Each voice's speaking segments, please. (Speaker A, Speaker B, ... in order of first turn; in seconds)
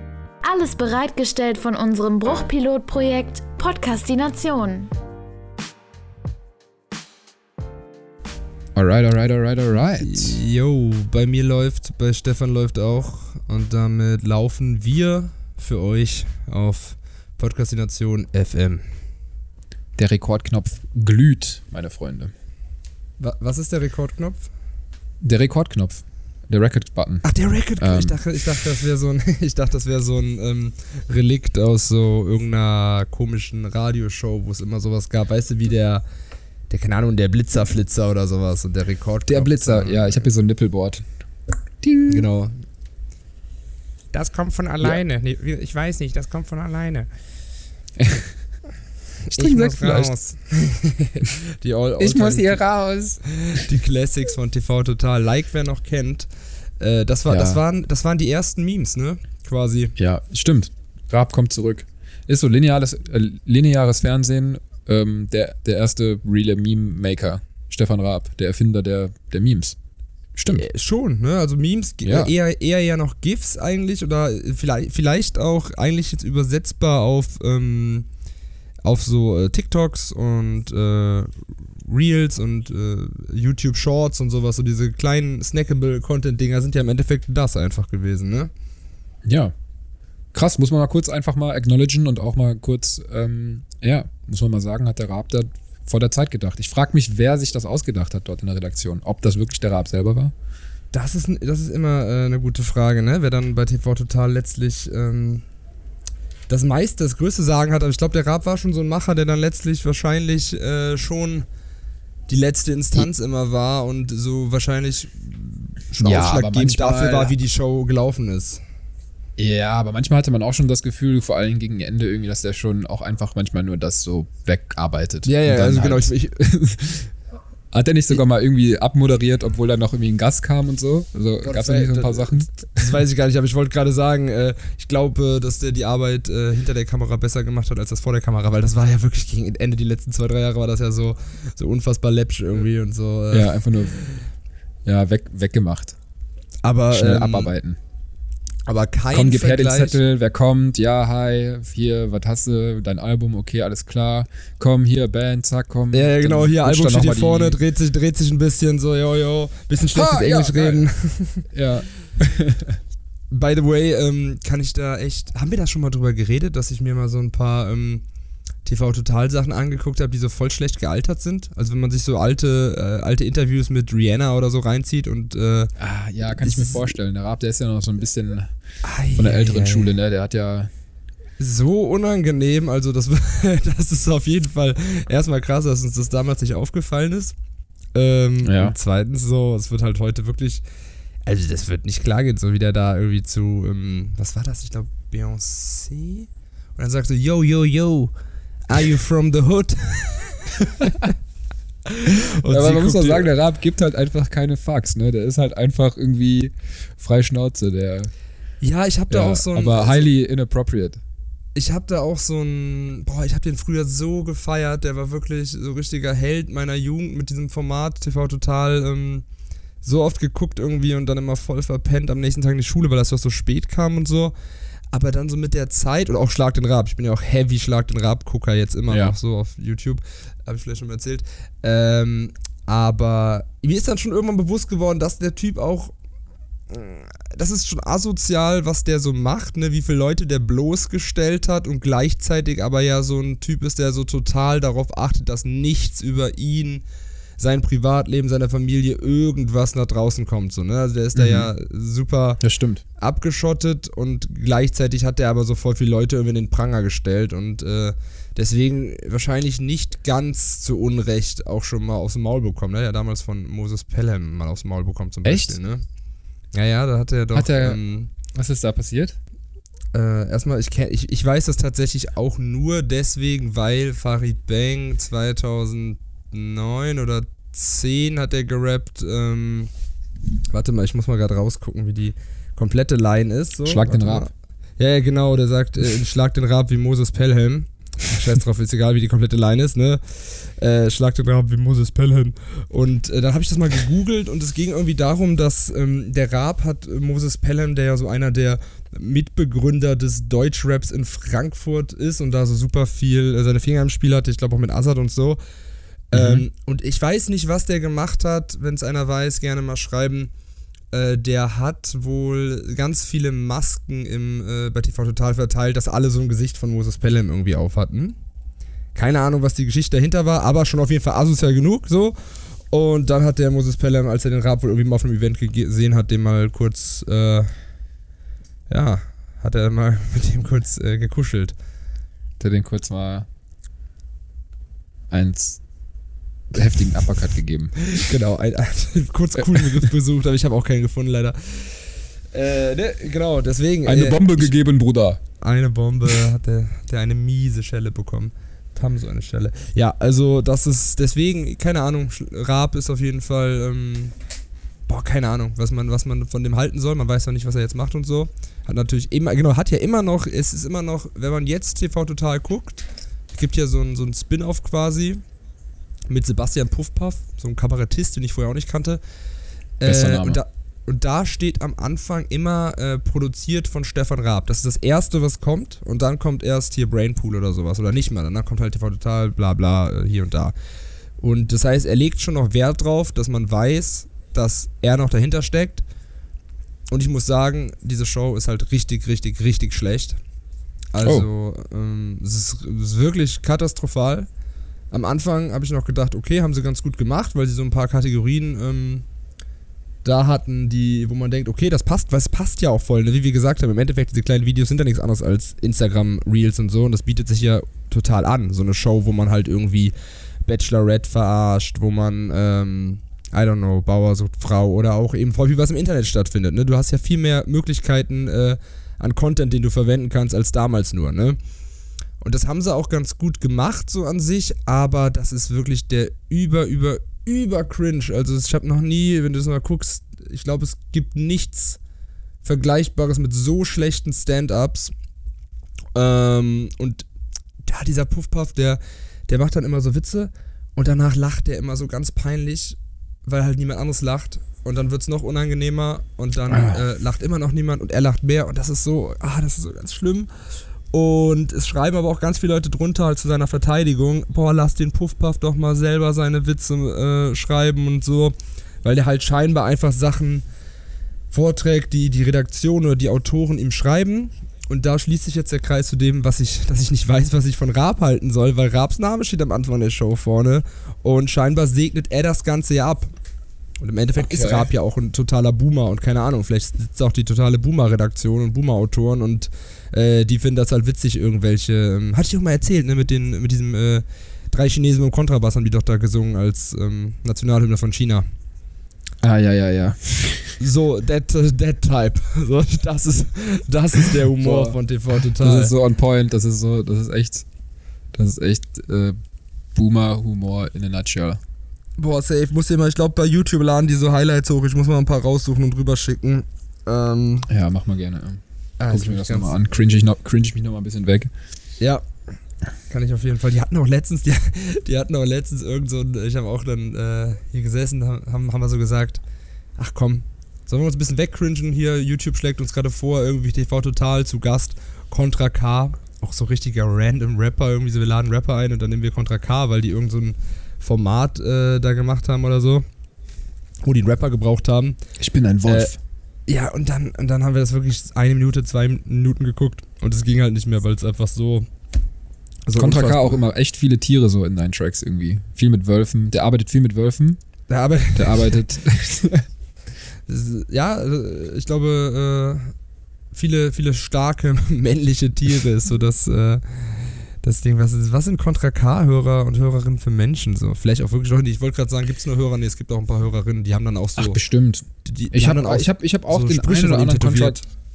Speaker A: 0.4-4.9
Speaker B: 8.8-10.4, 20.0-22.3, 25.2-28.2, 39.3-41.0, 41.8-42.3, 48.0-48.3, 49.3-50.1, 52.0-53.7, 57.3-57.6, 60.0-69.8, 70.4-70.7, 72.0-72.3, 89.2-89.5, 90.3-100.3, 116.0-117.3, 119.4-127.1, 127.7-133.0, 143.3-144.2, 144.8-146.0, 146.9-147.8, 149.1-157.6, 159.9-160.9, 161.5-162.8, 175.8-178.5, 179.2-180.7, 188.4-188.8, 202.5-208.1, 209.1-211.0, 251.2-251.5, 252.4-252.8, 265.2-265.6, 267.3-269.2, 283.6-284.3, 306.1-306.5, 332.4-333.3, 335.1-335.6, 336.5-338.1, 339.5-339.9, 343.9-345.2, 369.9-370.4, 446.5-446.8, 474.2-474.7, 489.2-490.6, 494.1-494.8, 495.4-497.5, 498.1-499.2, 499.8-501.4, 507.5-511.3, 535.2-536.0, 542.8-547.4, 548.1-549.5, 564.2-567.6
Speaker C: 10.0-18.9, 23.2-24.5, 27.2-36.0, 36.7-40.3, 42.1-42.6, 44.1-47.1, 49.3-52.6, 53.3-56.3, 56.8-60.0, 70.5-78.1, 78.8-81.3, 81.9-88.5, 100.9-105.5, 106.5-111.5, 112.3-118.6, 125.2-126.4, 131.4-144.2, 146.6-147.5, 148.7-150.0, 155.9-161.5, 163.3-168.0, 168.7-175.7, 176.4-176.9, 178.8-179.9, 181.4-187.4, 187.9-190.6, 191.3-198.1, 198.7-201.1, 201.9-203.3, 208.6-210.1, 211.6-219.3, 219.8-224.3, 224.9-235.9, 236.7-246.8, 247.4-252.4, 253.0-265.8, 266.5-268.1, 269.9-279.7, 280.5-305.4, 306.1-310.3, 310.9-318.2, 318.9-322.2, 322.7-327.5, 328.7-331.6, 337.9-344.5, 345.4-354.1, 354.9-362.8, 363.3-365.2, 366.1-369.0, 369.8-380.6, 381.2-385.8, 386.9-390.2, 390.9-394.3, 394.9-399.1, 400.0-409.9, 410.4-421.4, 422.2-431.8, 432.4-434.9, 435.9-437.1, 437.6-450.3, 450.9-460.5, 461.3-473.1, 473.8-488.3, 490.6-495.8, 502.0-507.5, 508.8-509.5, 511.8-512.0, 512.9-519.2, 519.8-532.9, 533.8-535.0, 535.7-535.9, 536.5-541.7, 542.7-543.4, 547.7-548.6, 550.3-552.7, 553.3-564.4, 565.0-567.7